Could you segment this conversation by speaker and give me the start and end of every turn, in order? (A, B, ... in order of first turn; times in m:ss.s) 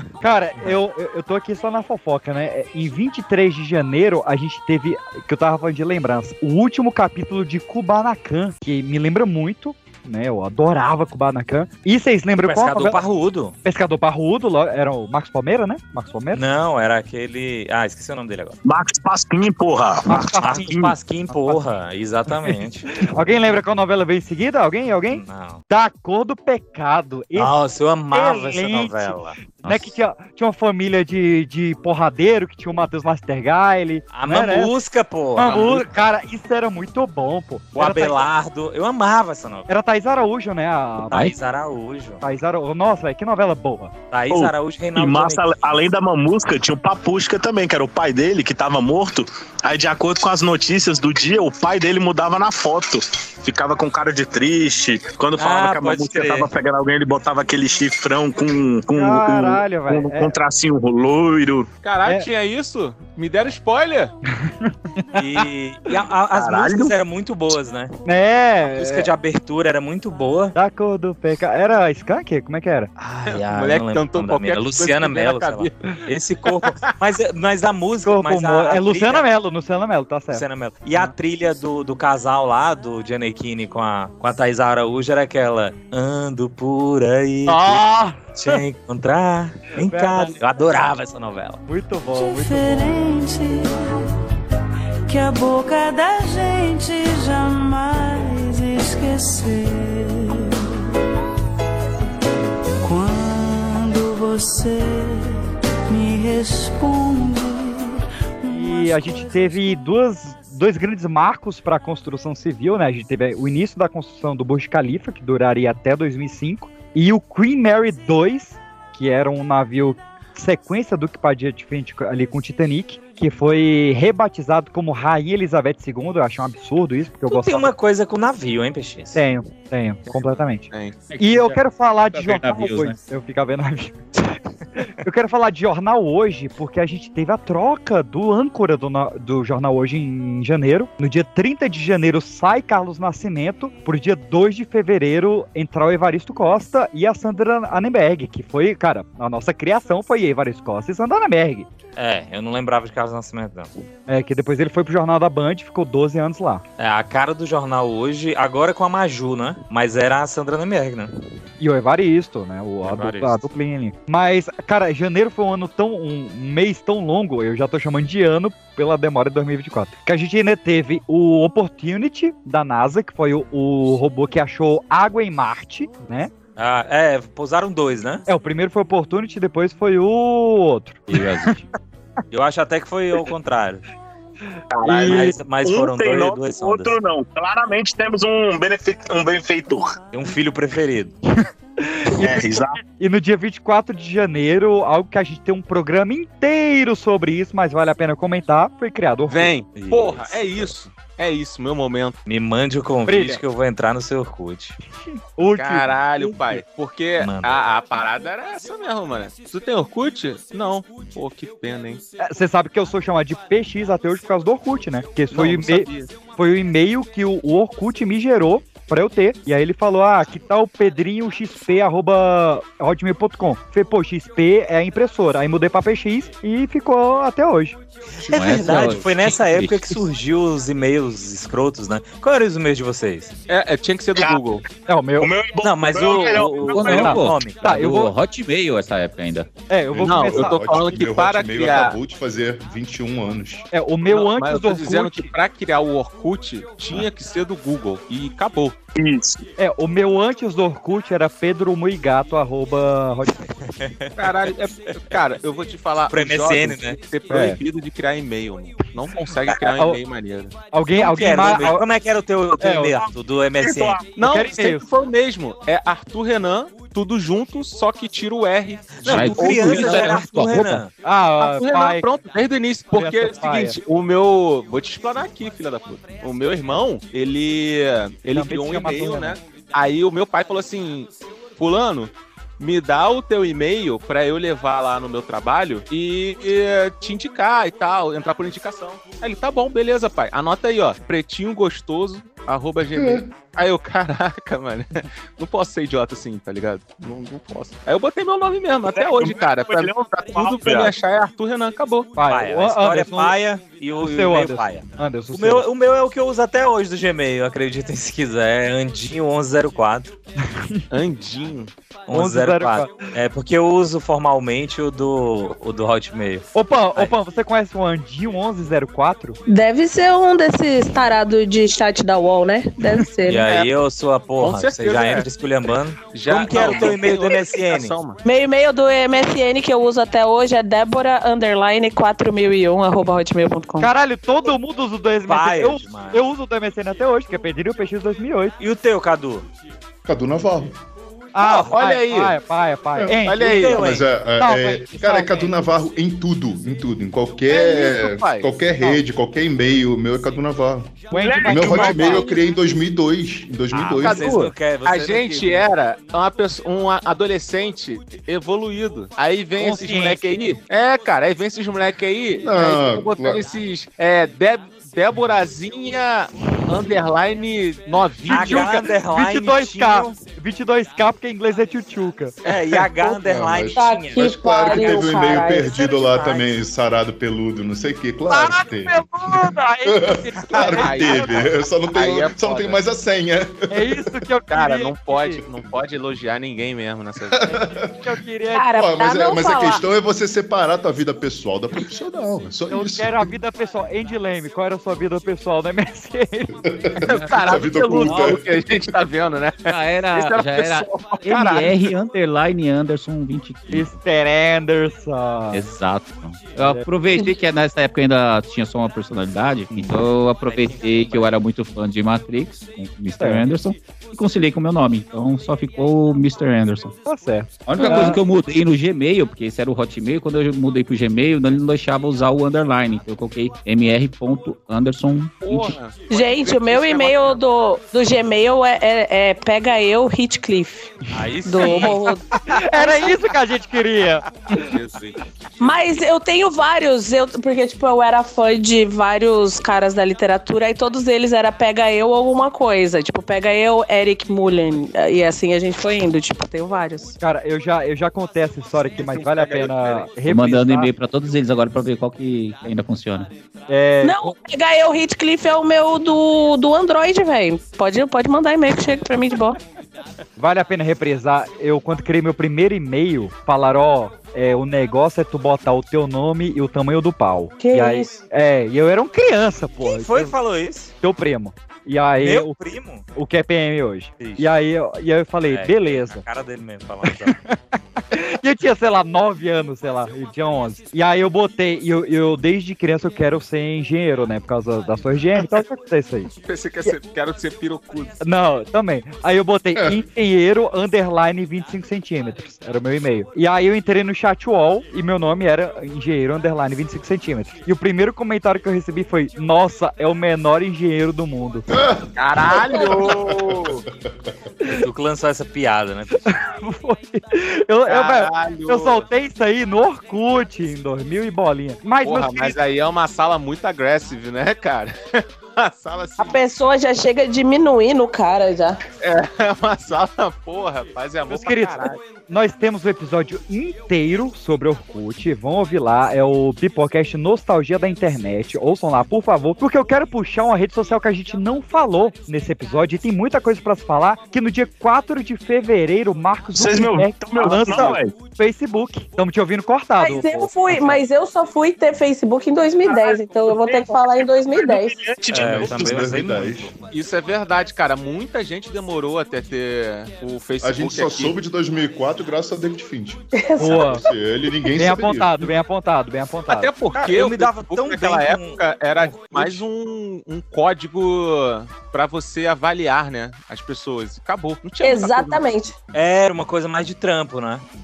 0:00.2-0:13.0 A
0:12.4-0:13.6 B
0:13.6-0:16.4 A
0:16.3-0:18.6 B
0:18.6-0:21.0 C
0:20.1-0:20.8 A
0:20.4-0:22.9 B
0:21.3-0:21.6 A
0:22.4-0:27.5 A
0:25.1-0:25.6 B
0:27.4-0:29.4 B
0:28.1-0:34.7 A
0:29.6-0:30.0 D
0:34.1-0:35.9 B
0:35.4-0:38.3 A
0:37.8-0:39.7 B
0:39.7-0:41.3 A
0:41.1-0:42.2 B
0:42.2-0:43.9 A
0:44.1-0:45.7 B
0:44.3-1:01.7 C
0:55.4-0:56.5 B
0:58.9-1:00.3 A
1:01.8-1:04.1 E
1:04.5-1:05.4 A
1:05.2-1:07.9 B
1:06.3-1:07.0 C
1:08.1-1:09.1 A
1:08.7-1:10.6 B
1:10.6-1:12.9 A
1:13.0-1:19.3 B
1:13.3-1:15.7 E
1:18.0-1:21.1 A
1:20.3-1:27.8 B
1:27.5-1:28.6 A
1:28.4-1:31.6 B
1:29.9-1:30.4 A
1:31.7-1:32.9 A
1:32.1-1:34.0 F
1:35.1-1:40.7 F
1:42.8-1:49.6 F
1:48.5-2:07.7 A
2:07.3-2:09.2 B
2:09.2-2:14.0 A
2:10.1-2:11.0 E
2:11.1-2:13.0 D
2:14.9-2:31.7 A
2:32.0-2:33.7 B
2:34.1-2:36.6 A
2:36.8-2:41.1 B
2:41.6-2:56.3 A
2:42.8-2:43.4 B
2:56.6-2:58.2 B
2:58.3-3:01.5 A
3:01.1-3:01.6 D
3:02.3-3:03.8 B
3:04.7-3:10.0 C
3:04.9-3:05.4 A
3:04.9-3:07.0 B
3:10.1-3:11.2 B
3:11.8-3:19.5 A
3:12.2-3:12.8 C
3:19.3-3:22.2 E
3:19.8-3:20.7 B
3:22.3-3:24.8 B
3:23.1-3:23.4 A
3:25.4-3:26.6 A
3:25.6-3:32.0 E
3:27.2-3:27.6 B
3:32.2-3:47.8 A
3:35.3-3:36.1 E
3:48.2-3:49.0 G
3:48.3-3:53.3 B
3:48.3-3:50.0 D
3:53.5-3:54.6 E
3:54.2-3:54.4 C
3:54.9-3:55.3 A
3:55.2-3:57.0 C
3:55.6-3:57.8 B
3:56.6-3:59.5 D
3:56.8-3:58.1 A
3:59.7-4:00.6 A
3:59.9-4:03.7 G
4:00.0-4:02.0 E
4:03.7-4:05.3 A
4:04.1-4:08.8 E
4:09.0-4:09.4 C
4:09.6-4:13.5 A
4:13.7-4:14.1 B
4:14.2-4:20.6 E
4:16.1-4:17.0 B
4:17.3-4:17.6 A
4:20.7-4:21.8 A
4:21.0-4:24.0 B
4:22.6-4:23.0 A
4:23.6-4:24.1 C
4:24.2-4:30.2 E
4:24.2-4:24.8 A
4:29.0-4:30.9 B
4:29.0-4:30.9 D
4:31.0-4:32.0 A
4:31.4-5:02.1 E
4:33.0-4:33.8 A
4:38.3-4:39.4 A
4:52.9-4:53.3 G
4:58.9-5:00.9 C
5:02.2-5:03.4 A
5:02.3-5:10.2 B
5:04.0-5:05.6 A
5:10.9-5:11.7 E
5:12.1-5:17.1 B
5:12.1-5:13.1 A
5:16.6-5:19.4 A
5:19.5-5:23.5 H
5:23.2-5:28.0 B
5:24.4-5:25.3 E
5:26.1-5:28.2 E
5:28.2-5:33.9 H
5:33.8-5:38.6 A
5:35.3-5:36.2 B
5:38.6-5:39.5 B
5:40.0-5:40.8 G
5:41.3-5:43.7 A
5:41.5-5:42.4 E
5:43.0-5:54.4 G
5:43.2-5:43.8 E
5:43.5-5:44.1 B
5:44.4-5:45.5 A
5:47.5-5:49.0 E
5:51.1-5:52.3 A
5:51.2-5:52.2 C
5:53.7-5:55.7 B
5:54.0-6:08.8 E
5:59.6-6:00.3 A
6:02.4-6:03.4 G
6:08.3-6:12.4 A
6:08.3-6:10.2 B
6:12.5-6:15.3 B
6:13.0-6:24.2 G
6:13.8-6:16.5 H
6:18.3-6:21.5 A
6:20.6-6:22.8 E
6:23.7-6:25.4 A
6:24.5-6:27.8 E
6:27.3-6:28.1 G
6:28.0-6:28.7 A
6:28.5-6:29.8 H
6:28.8-6:33.3 G
6:32.7-6:36.5 A
6:36.6-6:38.8 G
6:37.0-6:41.9 E
6:37.1-6:38.4 D
6:39.7-6:44.0 D
6:43.7-6:45.7 A
6:45.5-6:57.0 D
6:46.6-6:46.9 A
6:50.5-6:51.3 B
6:53.2-6:53.5 A
6:57.1-6:58.2 A
6:57.7-7:05.8 D
6:57.8-6:58.2 H
7:05.4-7:07.4 E
7:06.1-7:13.1 H
7:11.1-7:12.1 B
7:11.6-7:14.7 A
7:14.5-7:16.0 E
7:15.6-7:27.2 H
7:27.2-7:30.9 A
7:28.9-7:30.1 E
7:30.3-7:33.3 D
7:33.7-7:34.3 A
7:34.0-7:39.6 H
7:40.4-7:50.3 A
7:47.6-7:48.2 H
7:49.8-7:50.9 B
7:51.0-7:52.6 A
7:52.2-7:53.0 B
7:53.2-7:56.2 A
7:54.2-7:54.5 B
7:55.4-7:57.4 B
7:57.3-7:57.6 A
7:58.1-8:06.3 A
8:06.3-8:08.2 E
8:08.2-8:21.7 A
8:09.8-8:10.0 G
8:21.7-8:24.3 G
8:22.2-8:23.8 E
8:24.7-8:26.2 B
8:26.3-8:32.6 A
8:27.9-8:29.0 E
8:32.0-8:36.4 E
8:36.2-8:38.8 H
8:39.0-8:42.0 E
8:41.3-9:01.0 A
8:56.5-8:58.2 C
9:00.0-9:05.0 H
9:02.9-9:06.0 C
9:05.3-9:06.7 B
9:05.3-9:06.7 G
9:06.9-9:11.4 E
9:10.6-9:15.5 G
9:13.4-9:14.0 H
9:13.6-9:14.0 A
9:14.8-9:16.7 A
9:16.5-9:25.5 E
9:17.0-9:19.6 B
9:24.8-9:25.8 H
9:25.9-9:27.6 B